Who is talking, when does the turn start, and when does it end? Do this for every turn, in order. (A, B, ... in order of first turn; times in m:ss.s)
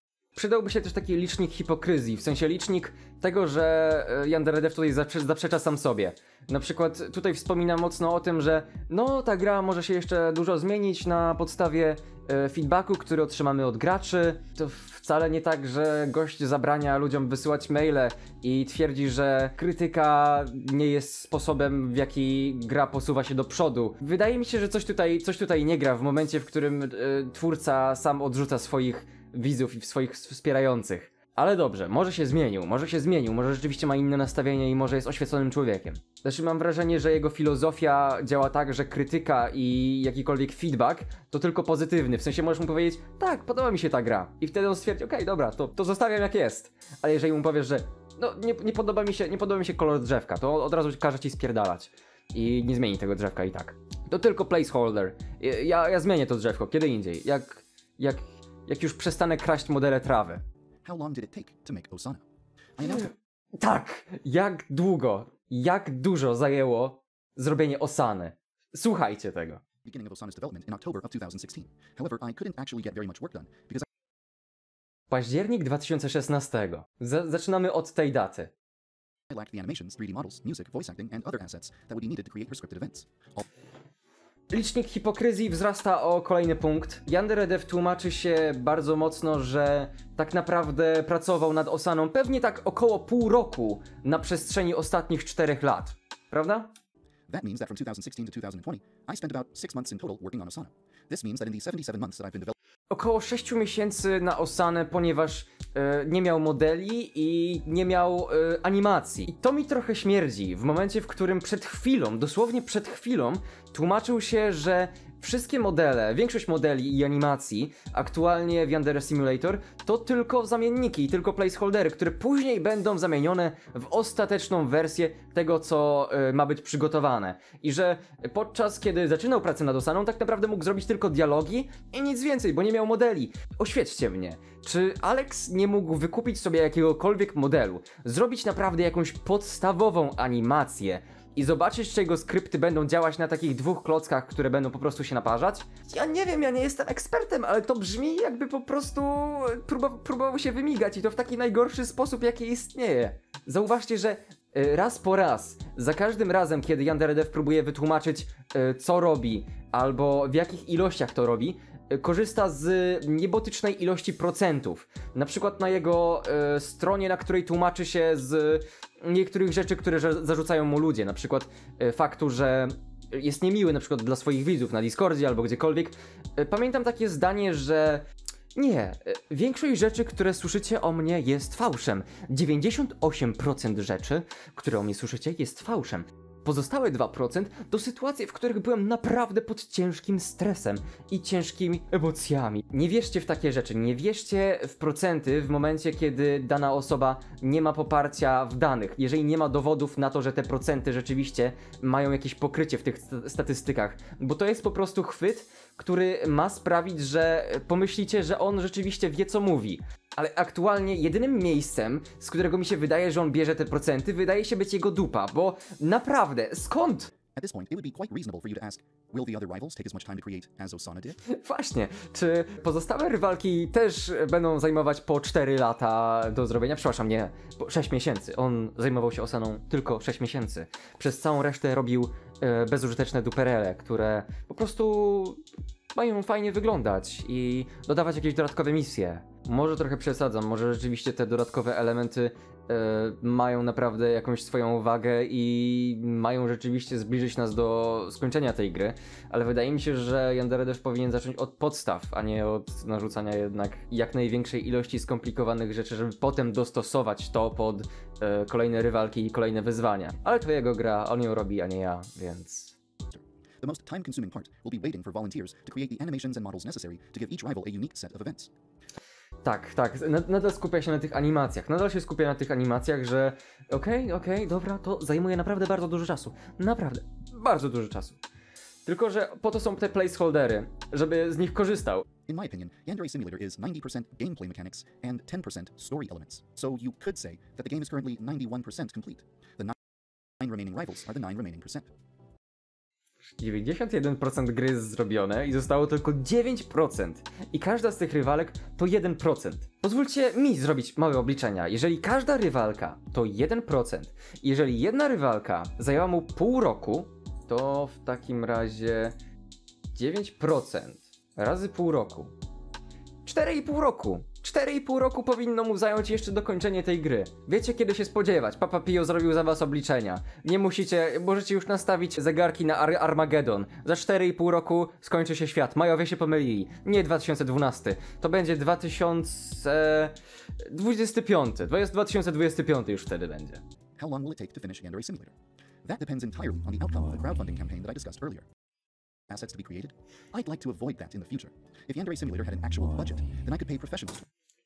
0:00.4-1:00.4 A
1:00.8-1:02.2 B
1:02.8-1:03.1 B
1:02.8-1:09.6 A
1:09.8-1:13.9 B
1:15.1-1:18.5 A
1:19.3-1:23.5 B
1:24.5-1:36.7 A
1:37.3-1:42.6 B
1:42.9-3:37.1 A
3:37.3-3:41.2 B
3:41.2-3:55.4 A
3:56.0-4:22.8 A
4:23.1-4:28.5 B
4:29.4-4:38.2 A
4:38.9-4:42.0 A
4:42.3-4:49.8 B
4:50.4-4:51.9 B
4:53.4-5:09.2 A
5:10.0-5:12.3 A
5:13.2-5:33.6 A
5:34.0-5:38.5 B
5:39.3-5:44.2 B